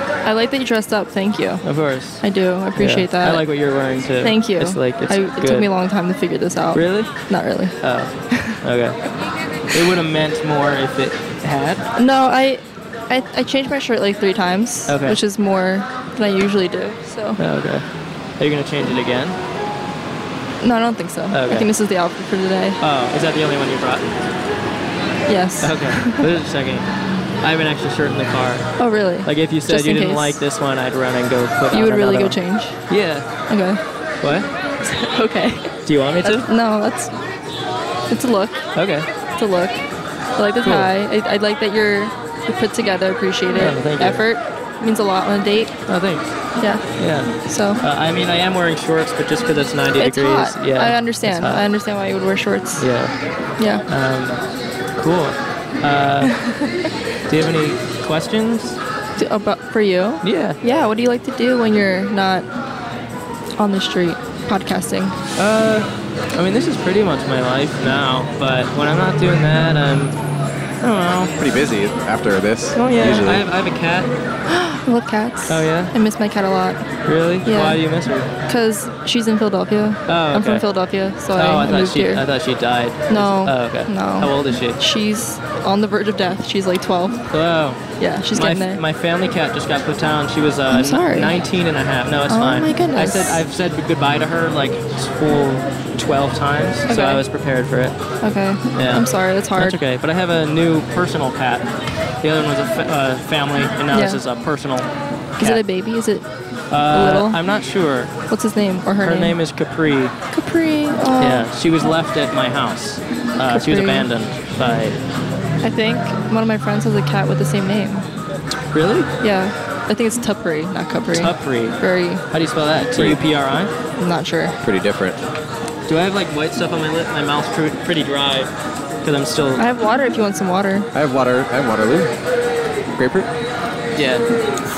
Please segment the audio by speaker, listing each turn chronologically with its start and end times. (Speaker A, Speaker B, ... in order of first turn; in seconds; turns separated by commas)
Speaker A: 0.2-1.6, Speaker B: 1.6-2.2, Speaker A: 2.2-3.6, Speaker B: 2.8-5.7, Speaker A: 4.1-7.8, Speaker B: 6.7-7.2, Speaker B: 7.8-9.0, Speaker B: 9.7-11.8, Speaker A: 12.0-17.4, Speaker B: 14.9-15.2, Speaker B: 17.4-17.8, Speaker B: 18.4-19.4, Speaker A: 20.6-22.8, Speaker B: 21.3-21.7, Speaker B: 22.8-24.1, Speaker A: 25.3-26.3, Speaker B: 25.6-26.9, Speaker B: 27.4-28.7, Speaker A: 28.8-30.4, Speaker B: 29.2-33.3, Speaker A: 31.7-33.0, Speaker A: 33.5-33.8, Speaker B: 34.2-34.5, Speaker A: 34.8-37.2, Speaker B: 35.9-36.5, Speaker A: 38.1-38.7, Speaker B: 38.8-39.1, Speaker A: 39.4-39.8, Speaker A: 40.4-45.8, Speaker B: 40.6-40.9, Speaker B: 43.5-44.2, Speaker B: 45.9-51.6, Speaker A: 46.6-47.8, Speaker A: 50.0-52.9, Speaker B: 52.8-53.1, Speaker A: 53.6-53.8, Speaker B: 53.9-54.4, Speaker B: 55.0-56.3, Speaker A: 56.2-56.7, Speaker B: 57.3-58.8, Speaker A: 59.2-62.5, Speaker B: 60.2-60.6, Speaker A: 63.6-65.2, Speaker B: 65.4-70.2, Speaker B: 70.8-71.3, Speaker C: 71.4-73.4, Speaker B: 72.8-74.1, Speaker A: 74.5-76.9, Speaker B: 75.5-75.9, Speaker B: 77.1-78.3, Speaker A: 77.4-77.8, Speaker A: 78.5-82.3, Speaker B: 80.1-80.7, Speaker B: 81.3-84.8, Speaker A: 83.1-87.3, Speaker B: 87.3-98.0, Speaker A: 88.0-88.8, Speaker A: 90.7-91.4, Speaker A: 92.3-93.5, Speaker A: 96.9-97.2, Speaker A: 98.2-99.8, Speaker B: 98.7-101.7, Speaker B: 102.2-105.6, Speaker A: 103.9-104.2, Speaker A: 105.4-106.2, Speaker B: 106.7-108.1, Speaker A: 106.8-107.4, Speaker A: 108.3-109.4, Speaker B: 109.0-110.2, Speaker A: 110.3-111.9, Speaker B: 111.2-115.0, Speaker A: 113.5-114.1, Speaker A: 115.6-118.1, Speaker B: 118.7-119.1, Speaker A: 119.2-122.2, Speaker B: 121.2-123.7, Speaker A: 124.0-124.6, Speaker C: 124.6-125.2, Speaker B: 125.9-128.5, Speaker B: 129.0-129.7, Speaker A: 129.6-130.9, Speaker C: 130.9-132.1, Speaker C: 133.0-133.3, Speaker B: 134.0-134.3